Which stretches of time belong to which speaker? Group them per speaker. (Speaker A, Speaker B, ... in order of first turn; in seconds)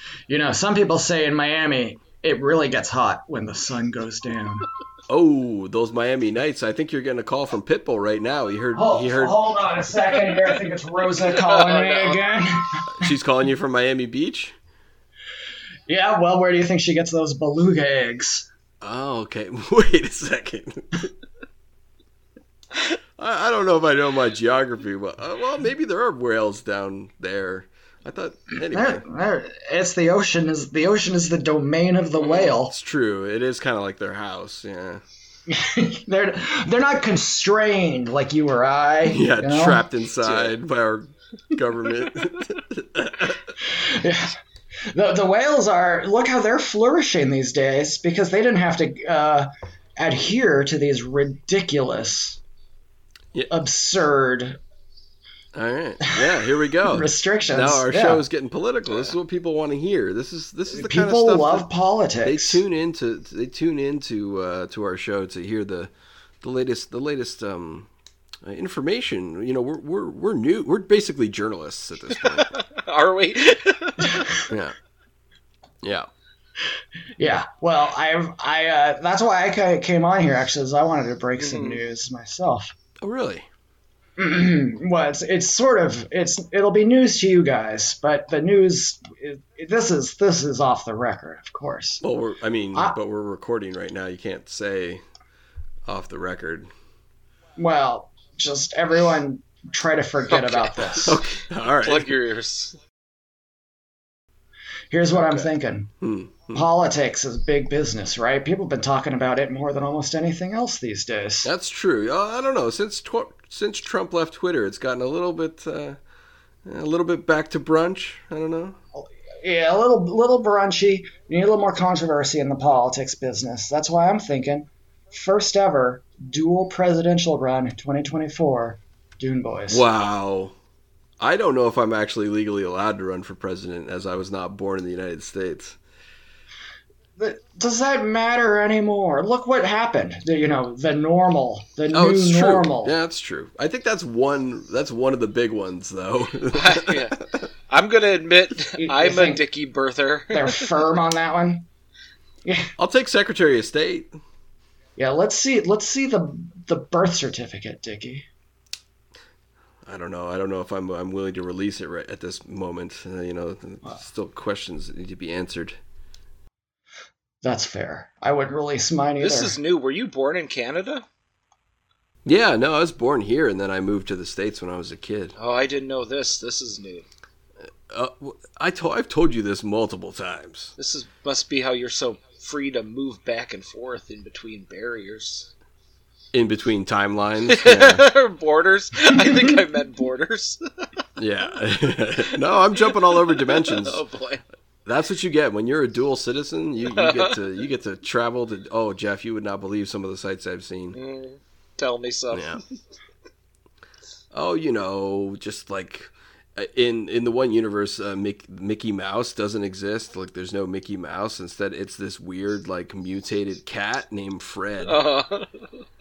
Speaker A: 0.3-4.6, 8.7-13.0, 15.9-18.5, 28.7-32.7, 35.5-39.8, 43.6-44.3, 44.9-52.4, 53.5-54.6, 56.8-58.2, 60.7-62.6, 74.0-74.5, 77.2-82.7, 84.2-92.0, 97.6-101.2, 104.9-105.9, 106.5-111.5, 118.9-129.8, 137.2-142.9, 148.8-149.4, 150.3-151.7, 152.4-152.7, 155.0-158.2, 167.4-169.5
Speaker B: 5.1-9.3, 12.9-14.6, 18.8-21.1, 23.2-29.0, 32.5-35.0, 39.0-43.5, 55.5-61.7, 62.2-67.9, 68.4-72.5, 74.5-74.8, 75.8-76.1, 83.0-83.5, 92.0-95.0, 95.8-96.7, 100.9-102.2, 106.0-106.6, 111.4-116.0, 116.6-118.8, 129.7-130.5, 131.2-135.8, 141.9-147.1, 152.8-154.1, 159.8-165.8, 172.2-175.3, 177.9-180.7, 186.3-188.1, 191.2-194.0, 194.8-201.0, 202.3-202.6, 204.3-215.0
Speaker C: 11.3-12.2, 40.2-40.5, 72.1-74.3, 81.4-81.8, 100.3-102.8, 146.5-147.2, 147.7-150.7, 169.2-171.0, 175.4-177.1, 180.8-185.5, 187.5-190.6, 192.7-194.4, 196.9-197.4, 200.9-202.6, 214.8-215.6